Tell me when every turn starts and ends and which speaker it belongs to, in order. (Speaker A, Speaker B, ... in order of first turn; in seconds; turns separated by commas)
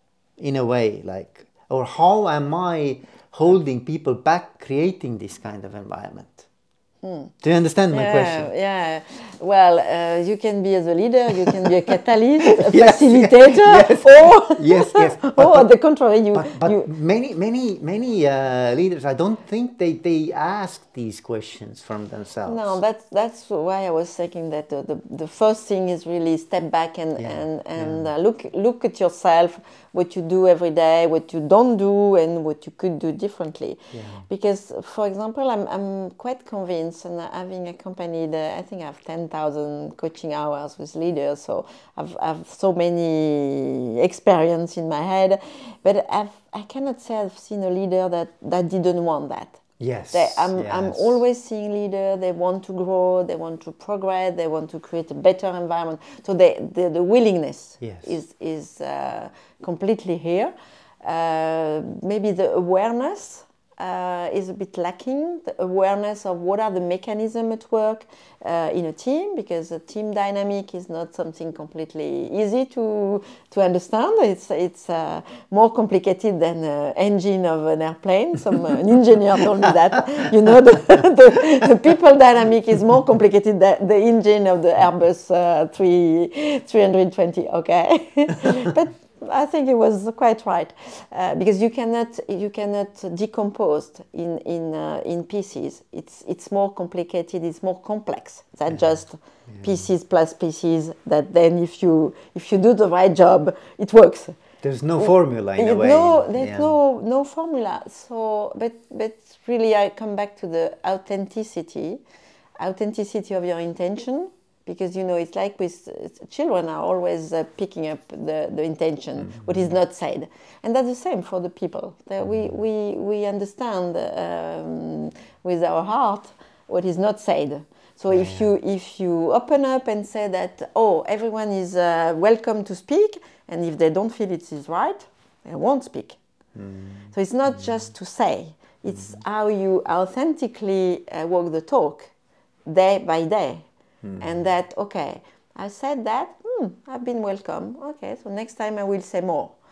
Speaker A: 0.4-6.5, Speaker B: 7.0-7.3, Speaker A: 7.4-8.5, Speaker B: 7.9-16.9, Speaker A: 12.5-15.7, Speaker A: 16.3-22.8, Speaker B: 22.5-104.4, Speaker A: 27.2-28.1, Speaker A: 33.9-34.3, Speaker A: 49.8-51.2, Speaker A: 57.8-58.1, Speaker A: 99.5-99.8, Speaker A: 104.6-106.7, Speaker B: 105.0-112.0, Speaker B: 112.6-136.2, Speaker A: 122.2-122.5, Speaker A: 128.1-128.5, Speaker A: 136.6-137.1, Speaker B: 137.1-142.1, Speaker B: 142.7-143.7, Speaker A: 144.0-144.3, Speaker B: 144.2-149.6